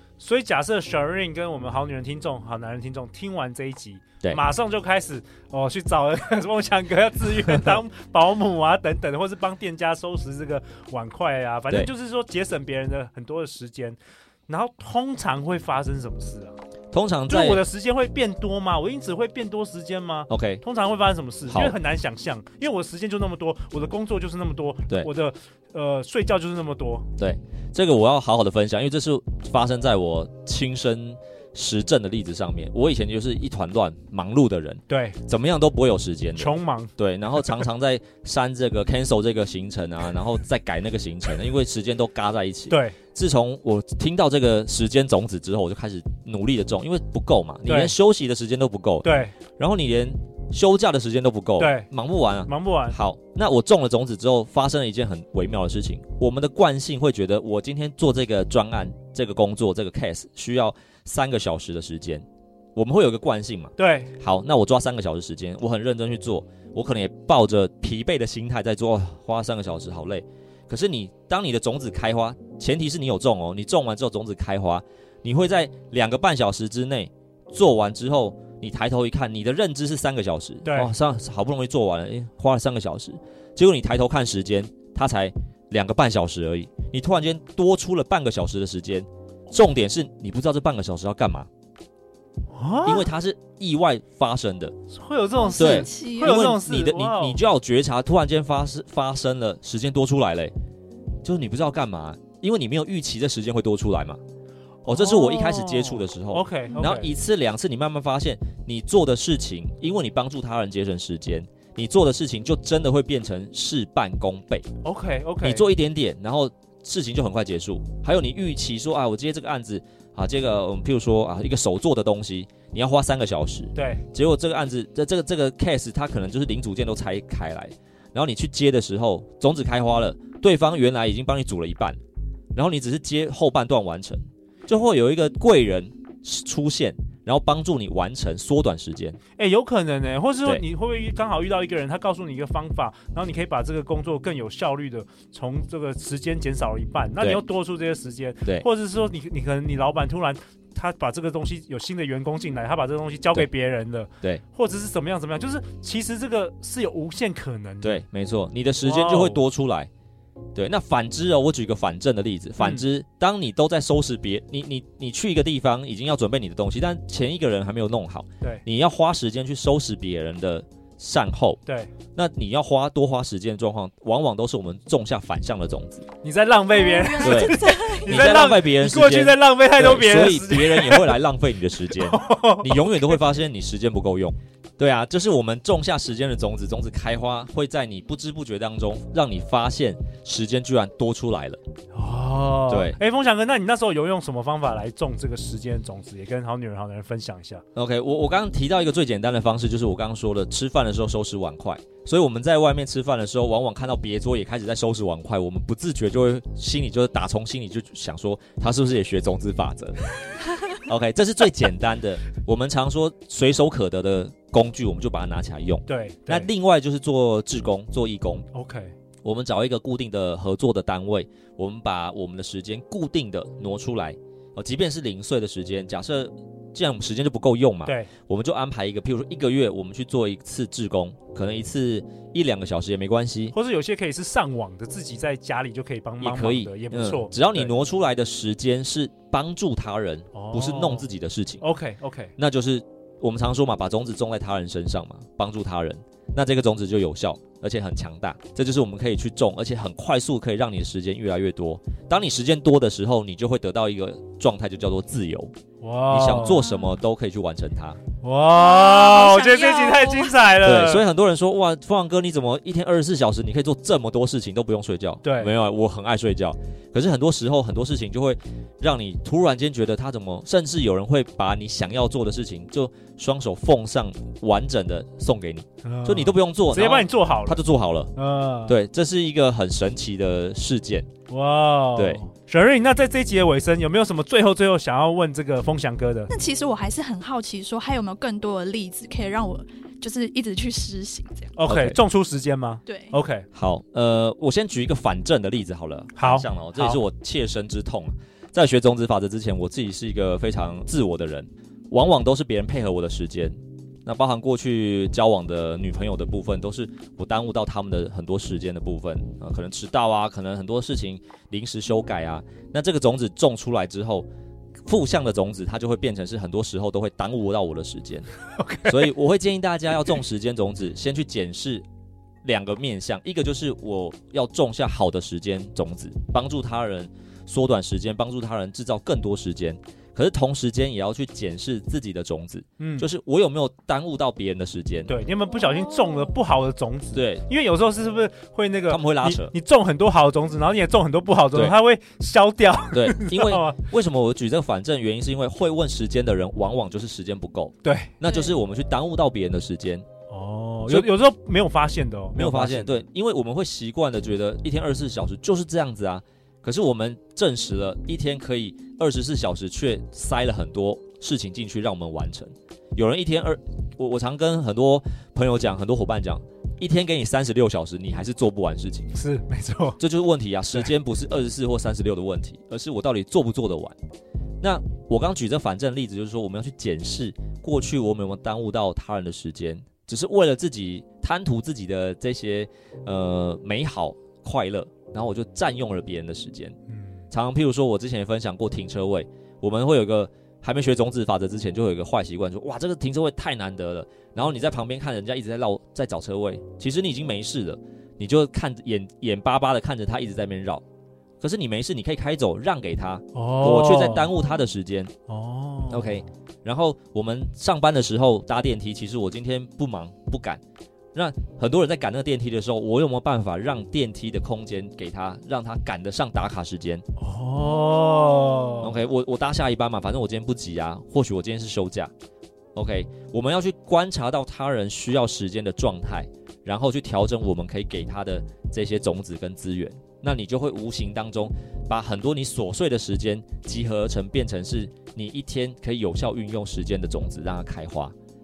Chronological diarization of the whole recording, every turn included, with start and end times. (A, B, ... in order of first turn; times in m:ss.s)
0:00.2-0:16.6 A
0:16.9-0:17.6 B
0:17.3-0:27.1 A
0:20.3-0:20.6 B
0:21.5-0:21.8 B
0:27.2-1:31.5 B
0:34.9-0:35.2 A
0:36.4-0:36.9 A
0:42.7-0:43.0 A
0:47.6-0:47.9 A
0:49.0-0:49.3 A
0:51.6-0:51.9 A
0:52.4-0:53.0 A
1:03.8-1:04.1 A
1:20.6-1:20.9 A
1:32.5-1:33.1 A
1:32.8-1:34.7 B
1:34.9-1:37.4 A
1:35.4-1:36.4 C
1:35.6-1:40.5 B
1:41.2-1:44.2 B
1:44.8-1:47.1 A
1:44.8-1:54.7 B
1:54.8-1:55.7 A
1:55.4-2:12.0 B
2:03.7-2:04.0 A
2:12.5-2:19.2 B
2:19.4-2:38.0 A
2:37.8-2:39.9 B
2:38.8-2:39.4 A
2:40.5-2:51.6 B
2:42.6-2:42.8 A
2:51.6-2:51.9 A
2:52.1-2:56.1 B
2:56.2-3:01.1 A
2:56.7-2:58.4 C
2:57.2-3:11.6 B
3:01.9-3:03.0 A
3:11.9-3:17.6 A
3:12.7-3:13.0 B
3:17.7-3:30.1 B
3:30.7-3:38.5 B
3:35.9-3:36.5 A
3:38.5-3:38.9 A
3:39.2-3:53.5 B
3:47.8-3:48.1 A
3:53.5-3:57.7 A
3:56.2-4:01.6 B
4:00.3-4:01.1 A
4:01.6-4:02.3 A
4:02.4-4:15.5 B
4:15.8-4:16.7 A
4:16.1-4:18.0 B
4:16.4-4:16.9 C
4:18.2-4:21.0 A
4:18.5-4:20.5 C
4:20.6-4:38.1 B
4:25.2-4:25.5 A
4:35.8-4:37.6 A
4:38.2-4:38.8 A
4:38.7-4:41.1 B
4:41.3-4:46.3 A
4:42.0-4:42.2 B
4:46.3-4:51.5 C
4:51.5-4:53.4 A
4:51.7-4:52.0 B
4:52.8-4:53.1 C
4:53.5-5:14.3 B
4:56.2-4:57.0 A
5:14.8-5:18.3 B
5:18.5-5:19.1 A
5:18.8-5:21.8 B
5:22.4-5:35.1 B
5:32.8-5:33.1 A
5:35.1-5:43.8 A
5:37.1-5:37.4 B
5:38.9-5:39.5 B
5:42.9-5:50.0 B
5:47.8-5:48.1 A
5:48.2-5:48.5 C
5:50.3-5:53.0 A
5:52.4-6:09.2 B
6:09.1-6:10.0 A
6:10.0-6:14.0 B
6:14.6-6:26.8 B
6:27.3-6:40.8 B
6:41.4-6:45.1 B
6:43.3-6:44.3 A
6:45.3-6:46.2 A
6:45.9-6:50.6 B
6:51.1-6:57.0 B
6:57.2-6:58.9 A
6:58.8-7:02.1 B
7:02.7-7:18.1 B